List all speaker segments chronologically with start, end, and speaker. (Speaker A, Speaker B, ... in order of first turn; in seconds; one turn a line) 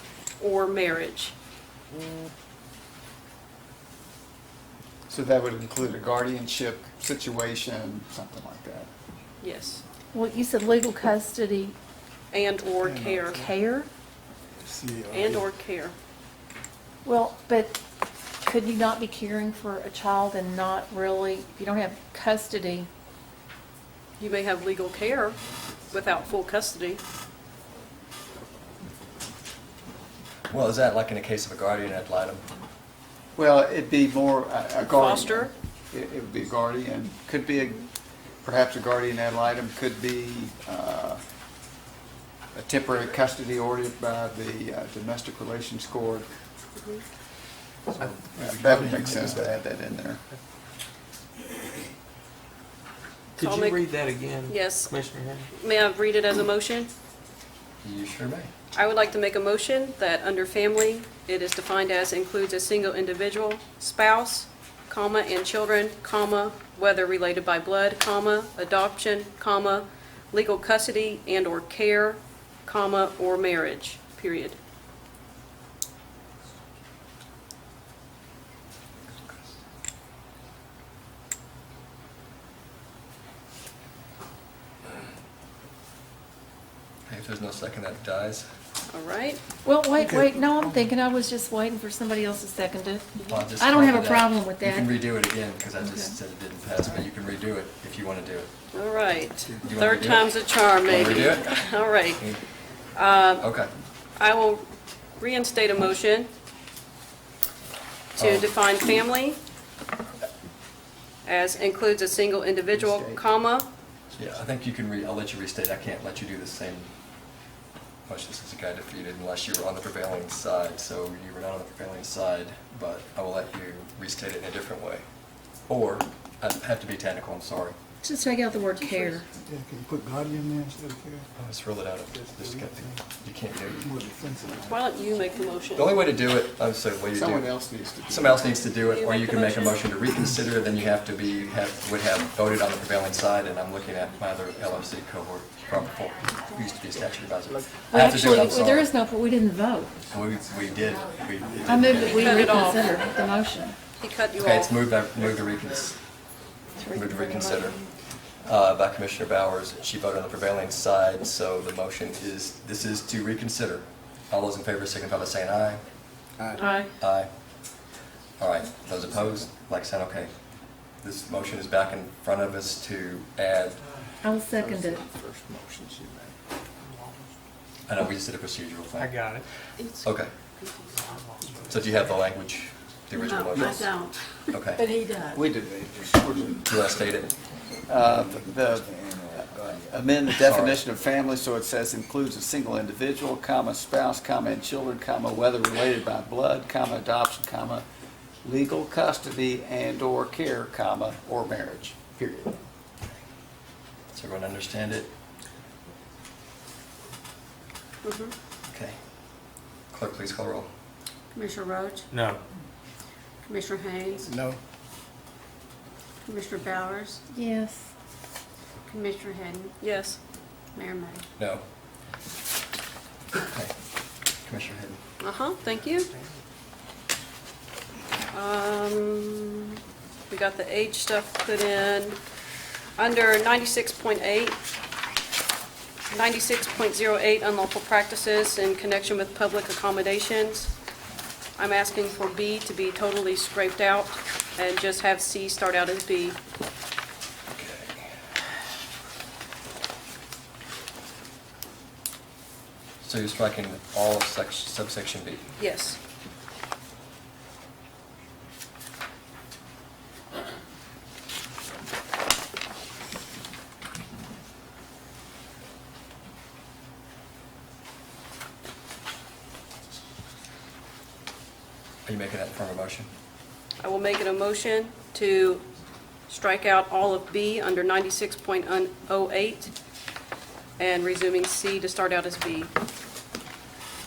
Speaker A: 0.4-1.3
Speaker B: 5.1-8.9
Speaker A: 9.4-9.8
Speaker C: 10.1-11.8
Speaker A: 12.3-13.5
Speaker D: 12.8-13.5
Speaker C: 13.3-13.9
Speaker D: 14.6-15.5
Speaker A: 15.1-15.9
Speaker C: 17.1-17.8
Speaker C: 18.4-22.9
Speaker A: 24.2-25.4
Speaker A: 25.9-27.0
Speaker E: 30.5-32.4
Speaker B: 33.4-37.8
Speaker A: 34.8-35.5
Speaker B: 38.4-41.2
Speaker B: 42.5-46.3
Speaker A: 46.8-47.0
Speaker B: 48.0-50.2
Speaker D: 48.4-49.6
Speaker F: 53.4-55.5
Speaker A: 53.4-53.8
Speaker A: 54.5-54.9
Speaker A: 55.5-56.9
Speaker E: 57.8-58.5
Speaker A: 58.7-74.6
Speaker E: 87.1-88.5
Speaker A: 88.9-89.4
Speaker C: 89.7-95.0
Speaker D: 90.0-90.8
Speaker E: 93.2-98.5
Speaker C: 95.8-96.2
Speaker A: 98.7-102.2
Speaker E: 99.6-100.3
Speaker E: 100.8-101.5
Speaker A: 103.0-103.5
Speaker E: 103.4-103.7
Speaker A: 104.2-106.3
Speaker E: 108.2-108.5
Speaker A: 108.2-109.4
Speaker A: 111.2-113.7
Speaker B: 112.7-113.2
Speaker E: 114.2-116.9
Speaker E: 118.1-125.0
Speaker E: 125.7-127.8
Speaker C: 128.0-129.3
Speaker D: 129.4-131.3
Speaker E: 131.4-134.0
Speaker D: 132.1-133.0
Speaker D: 133.8-134.8
Speaker A: 134.7-136.0
Speaker E: 135.8-137.5
Speaker B: 137.1-138.6
Speaker E: 138.1-148.9
Speaker A: 138.8-139.9
Speaker C: 147.9-150.0
Speaker E: 150.0-152.2
Speaker C: 151.6-153.8
Speaker A: 152.1-153.0
Speaker A: 154.0-154.8
Speaker E: 154.4-156.0
Speaker C: 156.8-157.9
Speaker E: 156.9-157.8
Speaker E: 158.4-165.8
Speaker A: 166.6-166.9
Speaker C: 166.6-166.9
Speaker E: 166.9-167.3
Speaker E: 168.4-170.3
Speaker E: 171.0-173.8
Speaker C: 174.2-175.0
Speaker B: 174.5-176.3
Speaker E: 177.9-179.2
Speaker F: 179.0-179.5
Speaker E: 180.0-180.3
Speaker F: 181.0-181.7
Speaker E: 181.7-184.8
Speaker G: 183.1-184.2
Speaker G: 184.9-185.4
Speaker B: 185.3-185.8
Speaker D: 185.5-187.2
Speaker E: 186.7-187.3
Speaker B: 187.9-197.8
Speaker D: 188.0-190.1
Speaker E: 190.4-190.8
Speaker B: 198.4-202.6
Speaker E: 204.1-205.1
Speaker A: 208.0-208.3
Speaker E: 208.7-209.0
Speaker E: 209.9-210.7
Speaker G: 211.3-212.1
Speaker F: 212.1-212.4
Speaker G: 213.5-214.3
Speaker D: 214.3-214.6
Speaker G: 216.3-217.2
Speaker C: 217.3-217.9
Speaker G: 218.9-219.7
Speaker A: 219.8-220.2
Speaker G: 220.8-221.2
Speaker E: 221.4-221.6
Speaker E: 223.5-223.7
Speaker E: 224.4-225.0
Speaker A: 225.2-226.1
Speaker A: 228.3-229.8
Speaker A: 230.3-232.2
Speaker A: 233.0-234.6
Speaker A: 236.1-240.7
Speaker A: 241.6-246.4
Speaker E: 247.6-248.1
Speaker E: 253.0-255.5
Speaker A: 255.6-256.0
Speaker E: 272.1-273.1
Speaker A: 273.8-275.6
Speaker A: 276.3-279.7
Speaker A: 280.8-282.7